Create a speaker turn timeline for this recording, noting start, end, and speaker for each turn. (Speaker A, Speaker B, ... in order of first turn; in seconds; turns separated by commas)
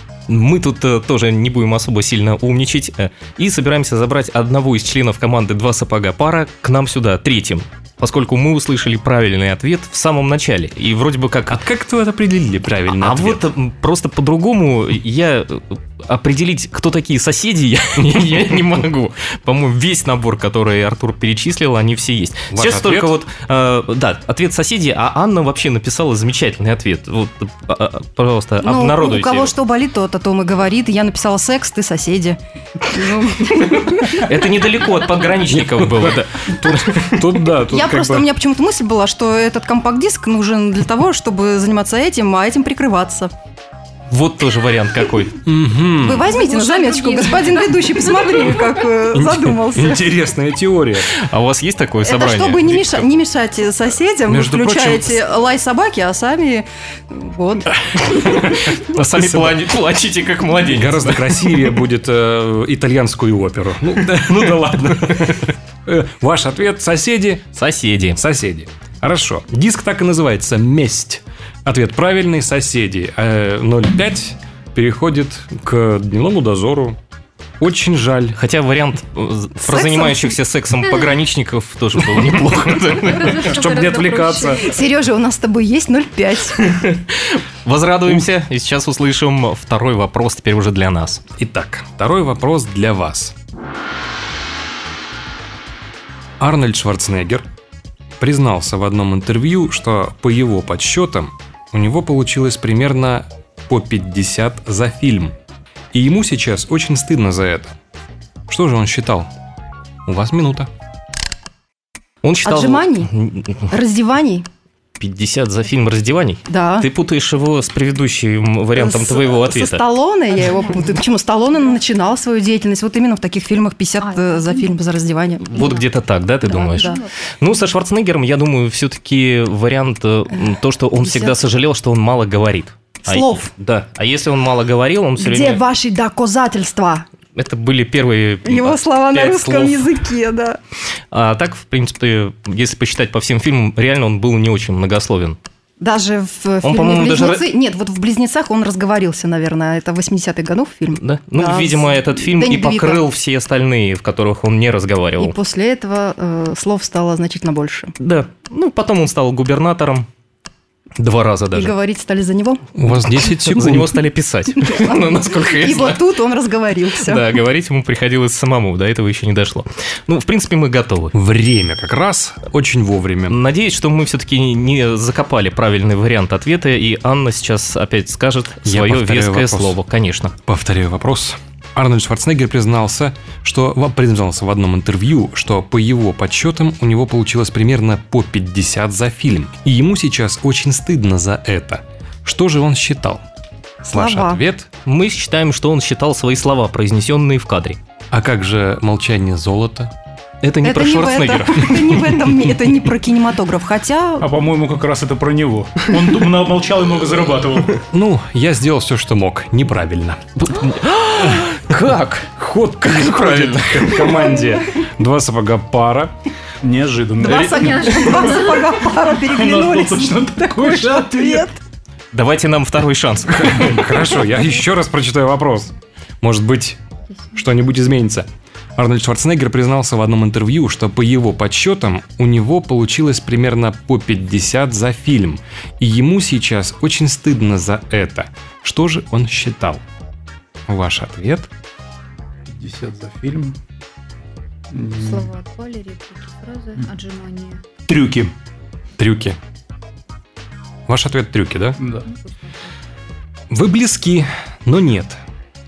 Speaker A: 0.3-11.6, Speaker B: 11.5-13.4, Speaker A: 12.9-29.5, Speaker B: 22.5-23.1, Speaker C: 28.6-34.3, Speaker A: 33.5-37.2, Speaker B: 35.5-38.3, Speaker C: 37.7-43.3, Speaker A: 44.1-45.4, Speaker B: 45.4-46.3, Speaker C: 46.0-50.1, Speaker D: 46.3-48.3, Speaker B: 49.1-51.1, Speaker A: 51.1-53.0, Speaker C: 52.0-58.4, Speaker B: 54.3-55.2, Speaker A: 58.2-61.4, Speaker B: 59.1-59.6, Speaker B: 60.7-67.5, Speaker A: 67.5-68.2, Speaker B: 68.2-77.0, Speaker B: 77.6-78.4, Speaker A: 78.3-83.5, Speaker C: 79.7-80.3, Speaker D: 83.2-84.6, Speaker B: 83.2-84.7, Speaker C: 84.6-86.7, Speaker A: 86.6-91.2, Speaker B: 91.4-93.3, Speaker B: 96.4-97.4, Speaker B: 98.2-105.3, Speaker B: 105.9-107.7, Speaker B: 108.5-109.3, Speaker B: 110.0-110.7, Speaker A: 112.2-113.7, Speaker C: 112.4-113.1, Speaker C: 113.7-114.5, Speaker A: 115.0-119.8, Speaker C: 116.5-116.9, Speaker C: 118.7-125.8, Speaker D: 120.4-121.0, Speaker D: 124.0-124.8, Speaker D: 125.5-125.9, Speaker A: 125.5-135.6, Speaker D: 126.4-127.1, Speaker C: 126.6-127.0, Speaker C: 131.0-131.4, Speaker C: 133.1-133.5, Speaker C: 135.2-137.1, Speaker A: 137.3-139.9, Speaker C: 138.4-140.6, Speaker A: 141.1-145.4, Speaker C: 145.8-153.0, Speaker A: 146.6-147.5, Speaker A: 150.9-155.3, Speaker C: 155.2-157.9, Speaker A: 158.0-160.1, Speaker A: 161.0-161.7, Speaker C: 161.5-162.7, Speaker B: 162.8-164.0, Speaker A: 163.2-166.0, Speaker C: 164.6-167.4, Speaker A: 167.0-171.1, Speaker B: 171.1-173.4, Speaker A: 173.3-180.3, Speaker B: 178.6-179.8, Speaker B: 180.4-193.2, Speaker B: 193.8-194.7, Speaker C: 193.9-194.4, Speaker A: 194.8-197.8, Speaker B: 198.1-199.9, Speaker A: 200.4-202.2, Speaker C: 200.6-204.3, Speaker E: 204.2-207.8, Speaker B: 207.8-210.4, Speaker A: 210.4-212.3, Speaker B: 211.2-216.1, Speaker A: 212.8-214.4, Speaker E: 216.6-221.5, Speaker C: 217.2-221.6, Speaker D: 217.3-218.6, Speaker A: 222.1-223.8, Speaker B: 223.3-226.8, Speaker B: 227.3-239.8, Speaker B: 240.7-241.5, Speaker E: 242.4-243.6, Speaker E: 244.7-245.3, Speaker D: 244.9-247.6, Speaker E: 247.9-248.3, Speaker B: 249.0-249.4, Speaker B: 250.9-251.8, Speaker E: 251.8-252.1, Speaker D: 252.0-252.7, Speaker B: 253.5-255.2